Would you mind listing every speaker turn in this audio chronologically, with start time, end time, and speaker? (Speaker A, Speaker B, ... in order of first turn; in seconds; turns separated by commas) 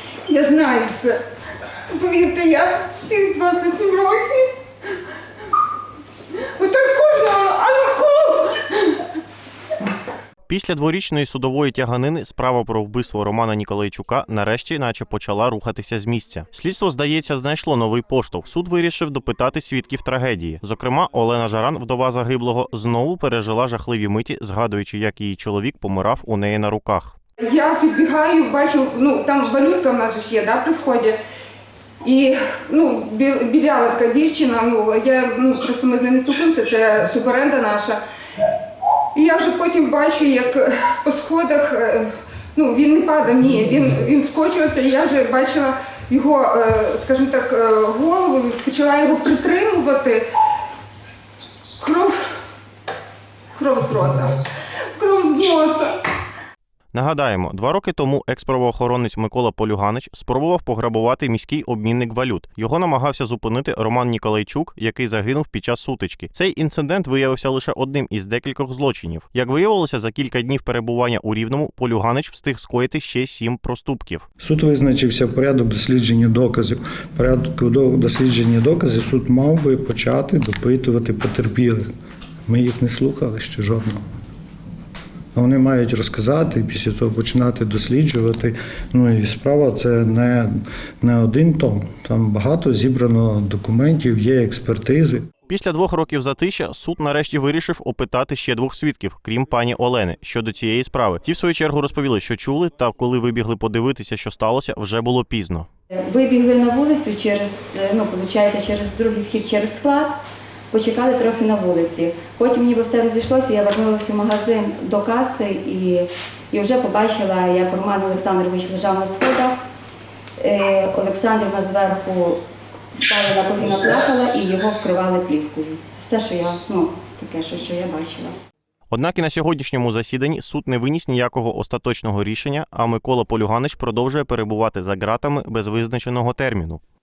Speaker A: 0.3-1.2, Speaker A: 1.9-4.5, Speaker A: 6.6-8.9, Speaker B: 10.5-27.1, Speaker A: 27.4-31.2, Speaker A: 32.0-38.0, Speaker A: 39.1-50.3, Speaker A: 51.8-52.3, Speaker A: 53.5-54.4, Speaker A: 55.0-56.0, Speaker B: 56.9-74.2, Speaker C: 74.4-81.8, Speaker C: 82.5-84.0, Speaker C: 85.3-95.3, Speaker B: 95.5-105.7, Speaker D: 105.9-110.2, Speaker D: 110.7-119.5, Speaker D: 120.4-122.4, Speaker D: 123.0-128.3, Speaker B: 128.9-136.8